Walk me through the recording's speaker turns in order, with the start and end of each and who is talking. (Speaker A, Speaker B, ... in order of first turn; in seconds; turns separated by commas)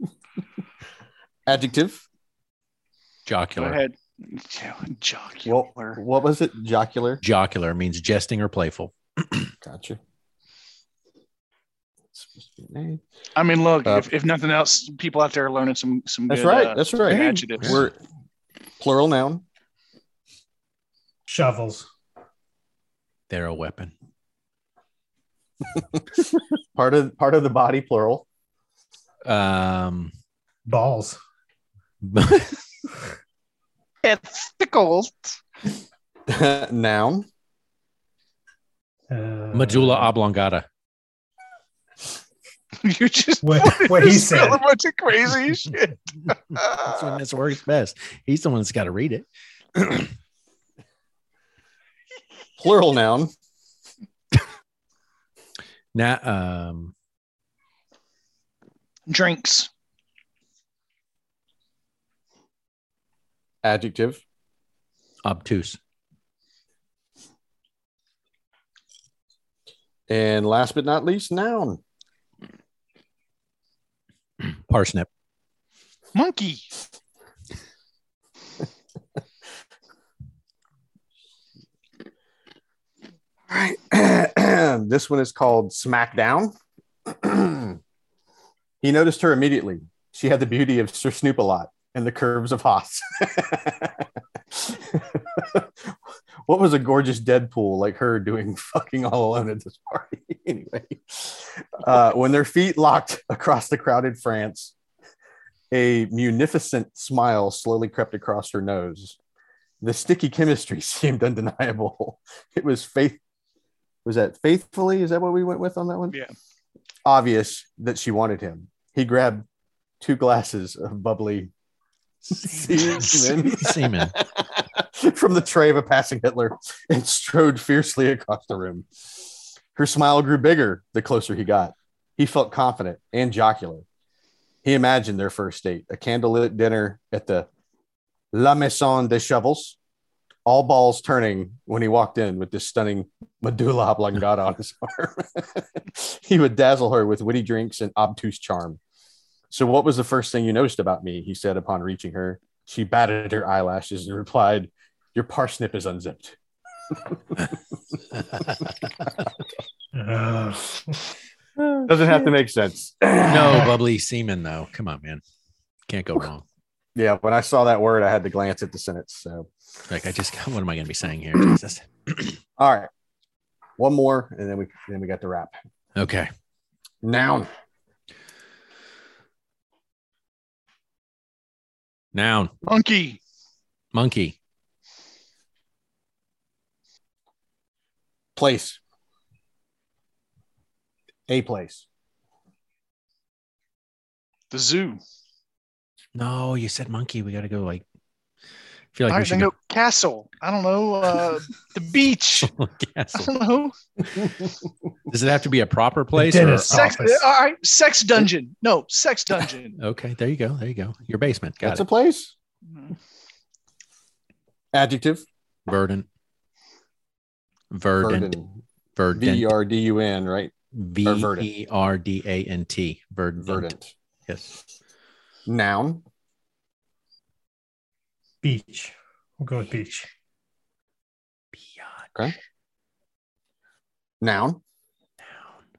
Speaker A: 1.5-2.0, Speaker B: 3.3-3.8, Speaker C: 3.6-6.0, Speaker A: 5.5-7.2, Speaker B: 7.2-9.5, Speaker A: 9.6-10.0, Speaker A: 12.2-13.0, Speaker C: 13.4-17.8, Speaker A: 16.3-18.0, Speaker B: 17.6-17.9, Speaker A: 18.8-19.4, Speaker D: 21.3-21.9, Speaker B: 23.3-23.9, Speaker A: 26.8-28.2, Speaker B: 29.2-30.1, Speaker D: 30.7-31.2, Speaker B: 32.0-32.6, Speaker C: 34.0-35.4, Speaker A: 36.3-37.3, Speaker D: 39.1-40.1, Speaker B: 39.5-40.7, Speaker C: 42.8-46.8, Speaker D: 43.4-44.6, Speaker B: 46.7-50.1, Speaker A: 52.6-53.3, Speaker B: 55.9-56.9, Speaker C: 59.1-59.7, Speaker A: 63.6-64.2, Speaker B: 65.2-65.8, Speaker A: 70.1-71.8, Speaker B: 74.5-75.1, Speaker C: 76.1-76.7, Speaker A: 83.5-86.5, Speaker A: 87.1-87.8, Speaker A: 88.8-95.9, Speaker A: 96.5-104.7, Speaker A: 105.7-109.2, Speaker A: 109.8-113.2, Speaker A: 114.0-116.2, Speaker A: 117.0-119.5, Speaker A: 120.0-121.5, Speaker B: 122.3-124.2, Speaker A: 122.3-128.9, Speaker A: 129.8-133.9, Speaker A: 134.6-137.5, Speaker A: 138.3-139.8, Speaker A: 140.5-148.8, Speaker A: 149.5-156.4, Speaker A: 156.9-157.5, Speaker D: 159.9-161.0, Speaker A: 161.9-163.8, Speaker B: 163.2-165.2, Speaker B: 165.9-166.4, Speaker A: 166.9-169.5, Speaker B: 169.9-172.3, Speaker A: 172.6-172.9, Speaker A: 173.8-175.6, Speaker B: 176.0-176.3, Speaker A: 177.0-177.5, Speaker B: 182.1-182.5, Speaker C: 182.7-183.2, Speaker B: 183.9-184.4, Speaker A: 188.4-188.8, Speaker A: 191.3-191.8, Speaker C: 194.5-195.0, Speaker B: 196.2-197.8, Speaker B: 198.9-199.5, Speaker C: 199.1-202.5, Speaker B: 202.4-203.3, Speaker C: 203.2-203.8, Speaker B: 205.1-206.9, Speaker D: 206.2-207.3, Speaker C: 206.7-209.8, Speaker B: 209.8-211.8, Speaker A: 211.6-212.3, Speaker A: 214.7-215.2, Speaker B: 215.7-216.1, Speaker B: 217.7-218.4, Speaker A: 218.0-218.5, Speaker B: 219.0-219.5, Speaker A: 219.1-220.5, Speaker B: 220.7-223.7, Speaker A: 221.1-221.5, Speaker A: 223.4-223.9, Speaker B: 224.3-224.5, Speaker A: 225.5-226.0, Speaker D: 228.4-230.1, Speaker B: 231.5-232.3, Speaker A: 234.2-234.6, Speaker B: 235.3-235.6